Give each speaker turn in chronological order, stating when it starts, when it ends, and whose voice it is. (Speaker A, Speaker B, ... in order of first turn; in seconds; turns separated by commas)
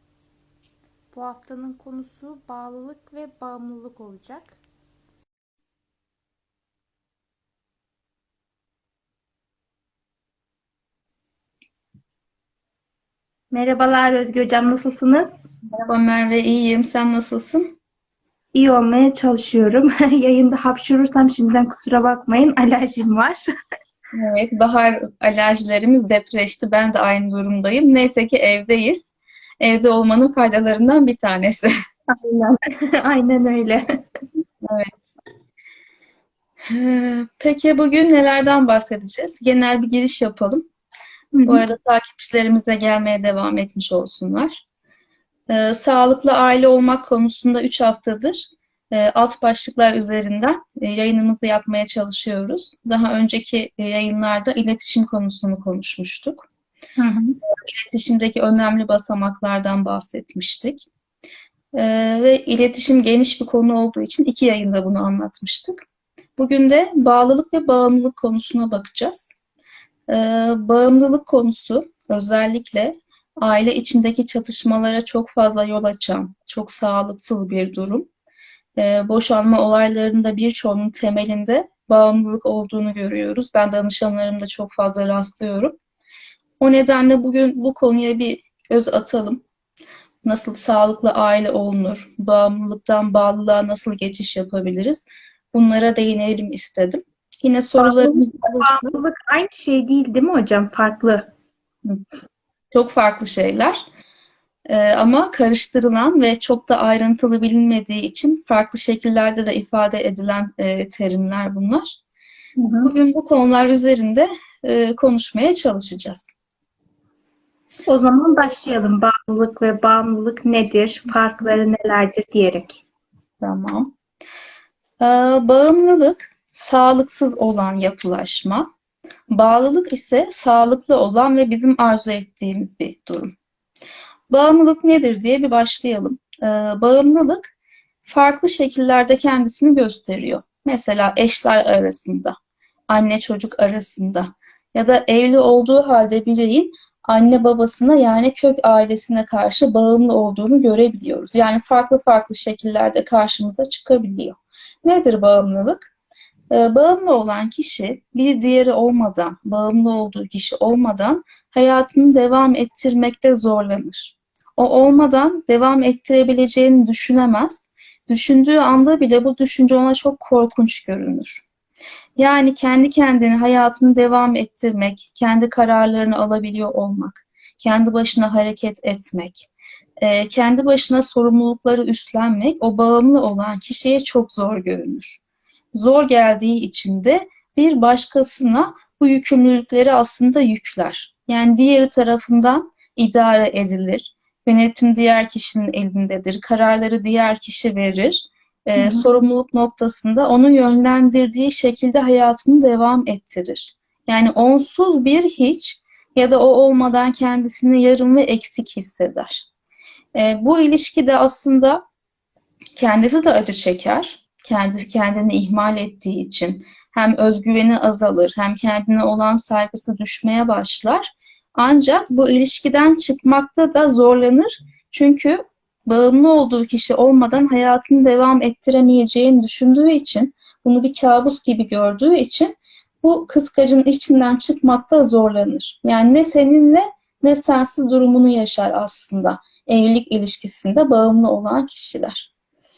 Speaker A: 1.1-4.6, Speaker A: 13.5-15.4, Speaker B: 15.7-17.6, Speaker A: 18.5-23.4, Speaker B: 24.1-31.7, Speaker A: 32.1-33.8, Speaker B: 34.6-35.1, Speaker B: 36.7-40.6, Speaker A: 41.3-41.6, Speaker B: 41.5-44.6, Speaker B: 45.5-56.5, Speaker A: 57.0-57.4, Speaker B: 57.5-60.9, Speaker B: 61.7-65.8, Speaker B: 66.4-69.3, Speaker B: 70.1-78.1, Speaker B: 78.8-85.8, Speaker B: 86.6-89.4, Speaker B: 90.2-99.0, Speaker A: 97.8-101.3, Speaker B: 102.7-103.8, Speaker B: 104.7-112.0, Speaker A: 112.6-112.9, Speaker B: 112.8-116.3, Speaker A: 117.9-122.8, Speaker B: 123.4-123.9, Speaker B: 125.0-128.7, Speaker B: 129.3-133.3, Speaker B: 134.3-137.4, Speaker B: 138.0-142.3, Speaker B: 142.9-155.9, Speaker B: 156.5-171.4, Speaker B: 172.2-179.5, Speaker B: 180.0-185.2, Speaker B: 185.7-209.4, Speaker A: 198.8-199.0, Speaker B: 210.1-211.8, Speaker B: 212.8-232.5, Speaker B: 233.0-242.3